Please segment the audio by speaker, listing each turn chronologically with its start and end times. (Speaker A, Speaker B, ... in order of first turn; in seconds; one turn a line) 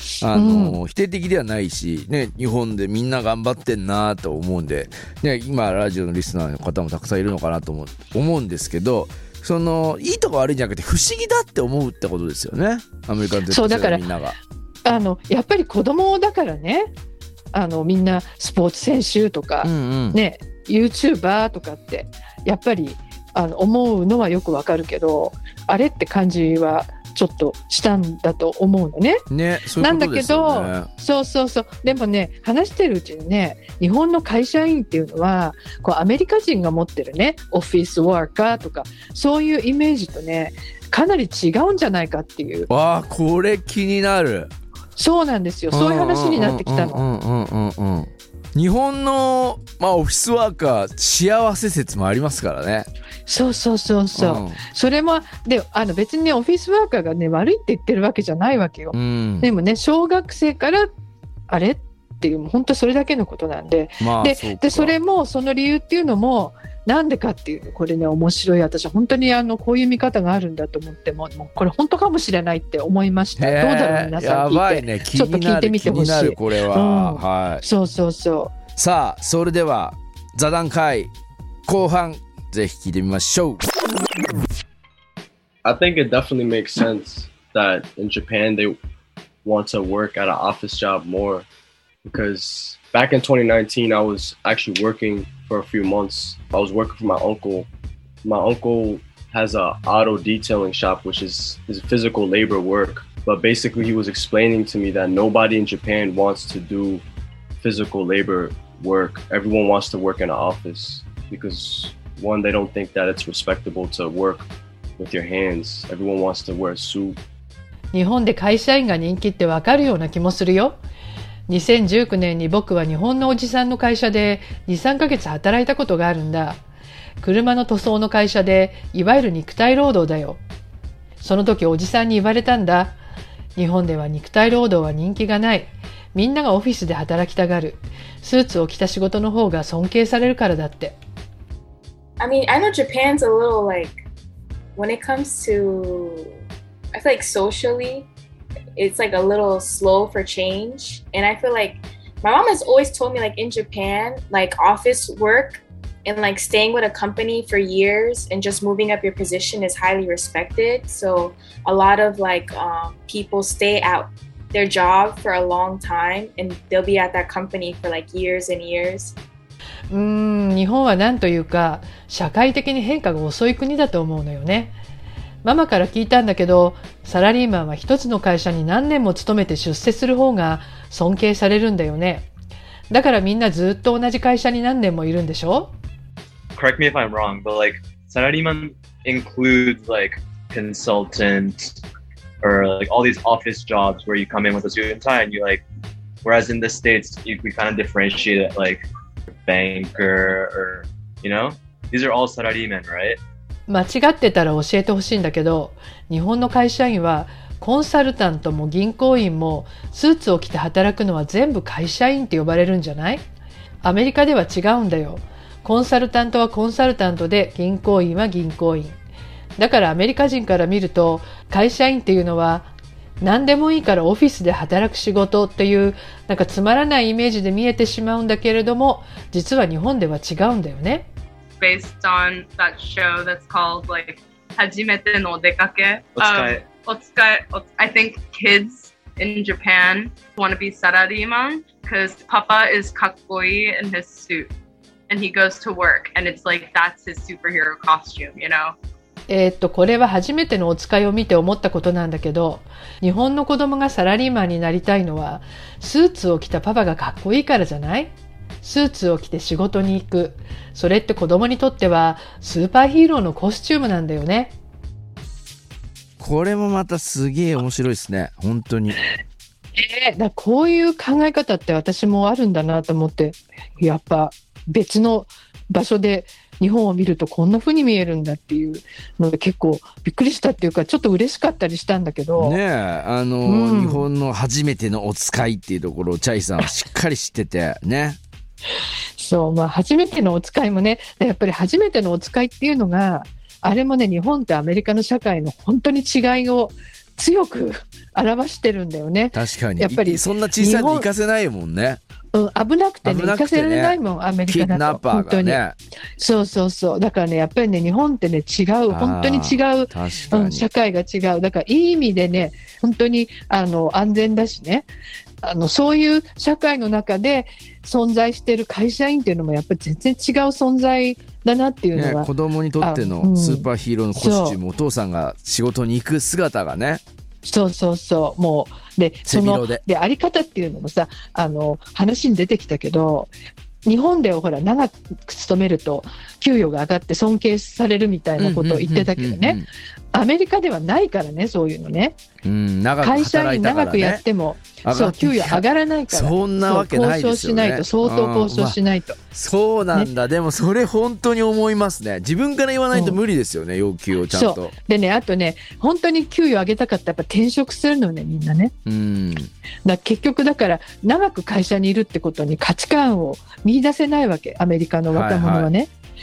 Speaker A: 0.2-14.4
Speaker B: 0.3-0.8
Speaker B: 13.5-14.0
Speaker B: 14.8-16.9
Speaker B: 17.5-29.2
Speaker A: 19.6-20.2
Speaker A: 29.3-30.9
Speaker B: 29.8-42.7
Speaker A: 42.7-44.5
Speaker B: 45.0-47.0
Speaker A: 45.7-52.9
Speaker B: 53.3-60.9
Speaker A: 54.1-54.6
Speaker A: 58.9-59.5
Speaker B: 61.5-78.5
Speaker A: 64.0-65.0
Speaker A: 73.4-77.6
Speaker A: 78.8-81.1
Speaker A: 81.7-83.7
Speaker C: 85.7-88.8
Speaker C: 89.5-91.5
Speaker C: 92.1-97.7
Speaker C: 98.2-107.0
Speaker C: 107.6-114.5
Speaker C: 115.0-117.2
Speaker B: 117.9-120.8
Speaker B: 121.5-126.6
Speaker B: 127.2-130.4
Speaker B: 131.2-133.0
Speaker B: 133.6-141.0
Speaker D: 142.2-144.0
Speaker D: 144.8-146.3
Speaker D: 146.9-148.1
Speaker D: 148.8-169.2
Speaker B: 169.9-174.8
Speaker B: 175.4-182.3
Speaker B: 182.9-185.7
Speaker E: 186.6-191.8
Speaker E: 192.4-195.6
Speaker E: 196.2-203.2
Speaker B: 203.7-213.2
Speaker B: 213.8-219.0
Speaker B: 219.6-222.7
Speaker B: 223.2-231.1
Speaker F: 231.6-244.5
Speaker E: 236.2-236.7
Speaker F: 245.1-248.8
Speaker B: 249.3-264.6
Speaker A: 266.2-269.0
Speaker B: 269.8-282.6
Speaker A: 282.4-288.2
Speaker B: 283.5-284.1
Speaker B: 289.2-301.1
Speaker A: 299.3-302.0
Speaker B: 302.3-305.6
Speaker A: 303.1-305.8
Speaker B: 306.2-314.9
Speaker A: 308.9-310.7
Speaker B: 315.4-324.6
Speaker A: 321.9-327.0
Speaker B: 327.4-333.3
Speaker A: 329.3-329.8
Speaker B: 333.9-339.6
Speaker A: 338.4-339.7
Speaker B: 340.1-342.2
Speaker A: 342.4-344.2
Speaker B: 343.0-349.2
Speaker A: 344.8-348.8
Speaker A: 349.3-354.8
Speaker B: 352.9-353.2
Speaker B: 354.3-358.7
Speaker A: 358.9-359.5
Speaker B: 359.9-365.9
Speaker A: 365.1-365.7